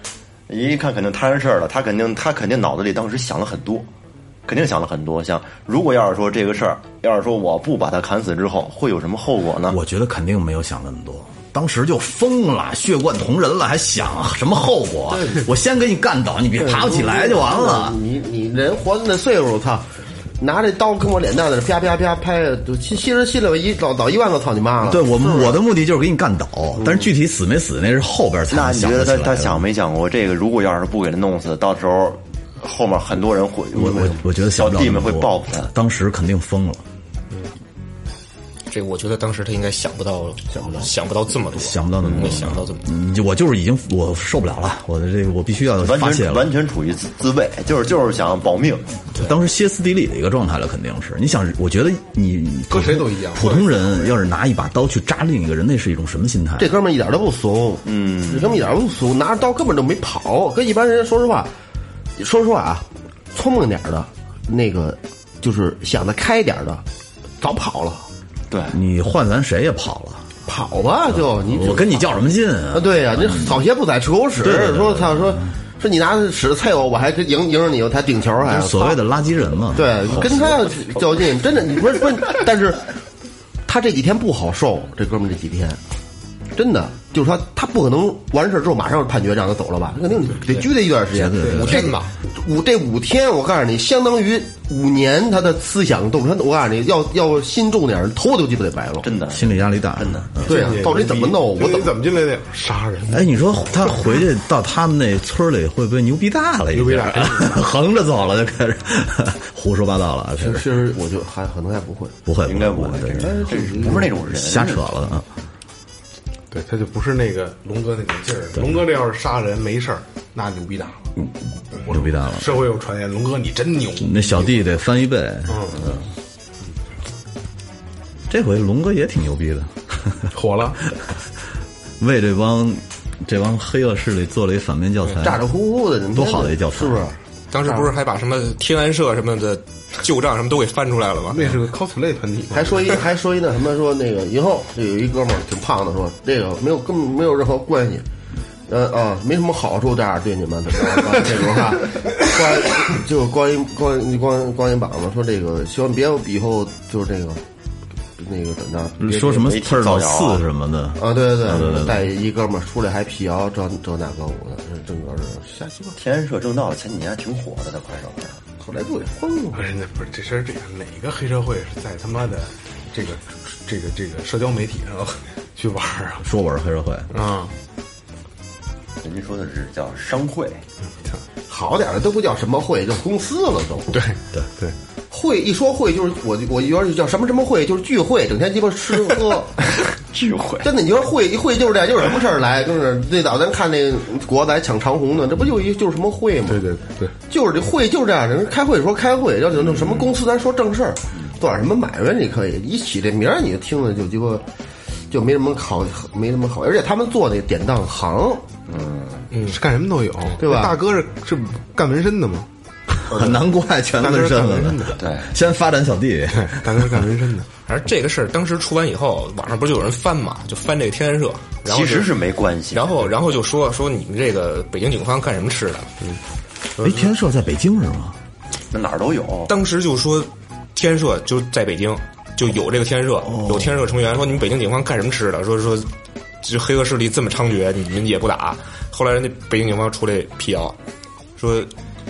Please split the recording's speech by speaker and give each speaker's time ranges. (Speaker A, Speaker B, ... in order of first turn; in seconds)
Speaker A: 0.5-3.9, 4.5-9.8, 28.5-35.7, 42.0-42.5, 45.8-49.0, 57.9-58.6, 68.5-68.8, 99.0-100.3, 112.5-115.0, 159.4-160.4, 166.0-168.4, 179.0-180.6, 189.6-190.7, 199.7-200.1, 208.7-209.3, 215.0-215.3, 221.7-223.1, 228.7-229.5
Speaker B: 9.7-18.0, 24.8-29.7, 33.8-36.8, 41.5-46.5, 49.1-56.7, 68.7-70.3, 71.4-73.6, 74.4-75.4, 78.4-80.5, 91.1-91.9, 99.3-100.8, 103.1-110.7, 112.3-115.3, 118.5-118.8, 121.9-122.6, 124.0-125.9, 128.3-130.3, 132.0-135.4, 136.1-137.0, 159.0-162.0, 176.2-177.1, 213.1-217.0, 226.8-228.2, 233.3-233.8
Speaker C: 15.1-15.4, 16.6-19.9, 20.4-25.6, 26.8-27.1, 40.5-40.9, 56.6-61.5, 62.2-66.8, 67.4-68.1, 70.5-72.0, 72.7-79.0, 79.7-82.9, 83.7-85.8, 86.5-99.1, 100.5-101.9, 110.4-112.2, 113.2-114.0, 135.2-137.9, 142.5-148.1, 148.7-157.4, 158.2-159.5, 161.0-166.0, 168.6-169.6, 181.5-183.9, 185.1-189.5, 190.6-196.7, 197.3-204.5, 205.1-208.4, 210.4-210.8
Speaker D: 38.7-42.9, 91.8-92.0, 137.5-141.4, 209.3-209.6, 217.7-222.1, 222.7-225.9, 229.5-235.9, 236.4-240.8, 241.4-241.7
Speaker E: 52.7-54.1, 91.4-92.0, 100.5-103.3, 106.7-107.6, 116.5-121.1, 121.8-124.7, 125.5-125.9, 130.3-130.8, 141.3-143.0, 169.5-176.3, 177.1-177.5, 183.9-184.8, 196.5-197.2, 209.5-212.5, 214.0-215.0, 216.3-217.5